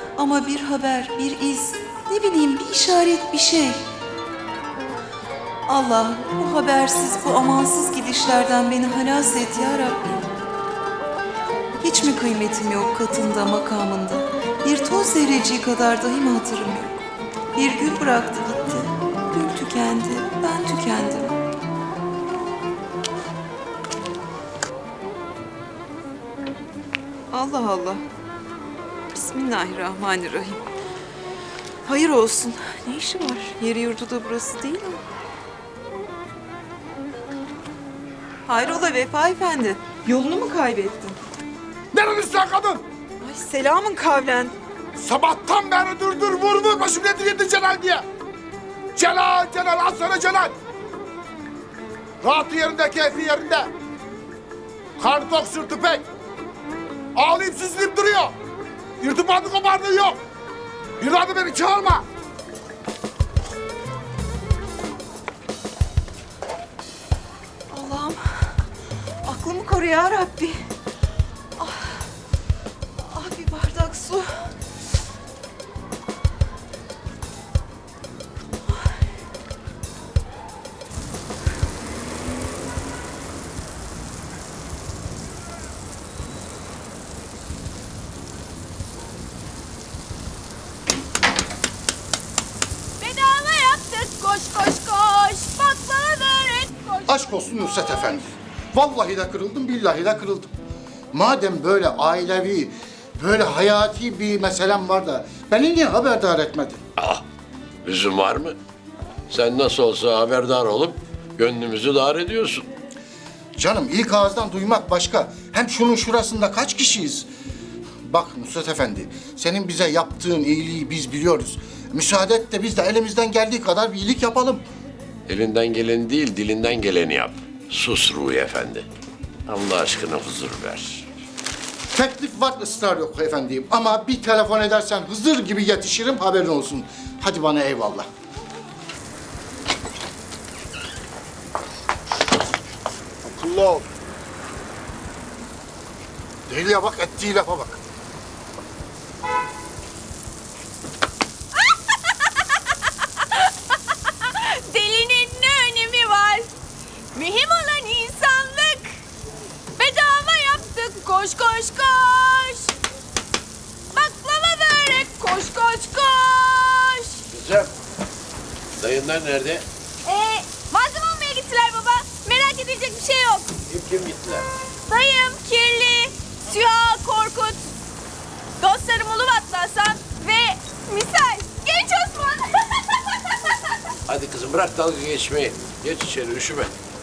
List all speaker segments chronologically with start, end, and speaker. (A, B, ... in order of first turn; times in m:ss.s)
0:00.2-0:03.8 A
0:05.7-0:10.3 A
0:11.8-0:17.0 A
0:17.6-0:21.4 A
0:27.3-0:28.0 A
0:29.1-0:30.6 A
0:31.8-0:35.0 A
0:38.4-0:41.2 A
0:41.9-0:42.8 B
0:43.2-0:44.6 A
0:45.0-0:48.0 B
0:49.0-0:50.5 B
0:52.2-0:53.7 B
0:55.0-0:56.0 B
0:57.2-0:58.3 B
0:59.0-1:00.2 B
1:01.0-1:02.0 B
1:07.7-1:08.6 A
1:09.2-1:10.6 A
1:11.6-1:12.1 A
1:13.0-1:14.5 A
1:33.0-1:37.3 C
1:37.1-1:40.5 D
1:41.1-1:46.8 D
1:47.0-1:47.2 E
1:47.8-1:48.6 E
1:49.3-1:52.7 E
1:53.6-1:57.3 D
1:58.0-2:04.6 D
2:05.3-2:08.9 E
2:09.5-2:11.1 E
2:11.9-2:18.1 D
2:23.3-2:23.8 D
2:26.5-2:27.8 D
2:33.2-2:33.5 C
2:34.2-2:36.5 C
2:37.1-2:39.0 C
2:39.8-2:42.7 C
2:43.9-2:47.2 C
2:47.3-2:47.7 E
2:48.8-2:49.6 E
2:50.0-2:53.6 C
2:53.7-2:54.5 E
2:54.9-2:57.6 C
2:58.6-3:03.0 C
3:04.1-3:06.7 E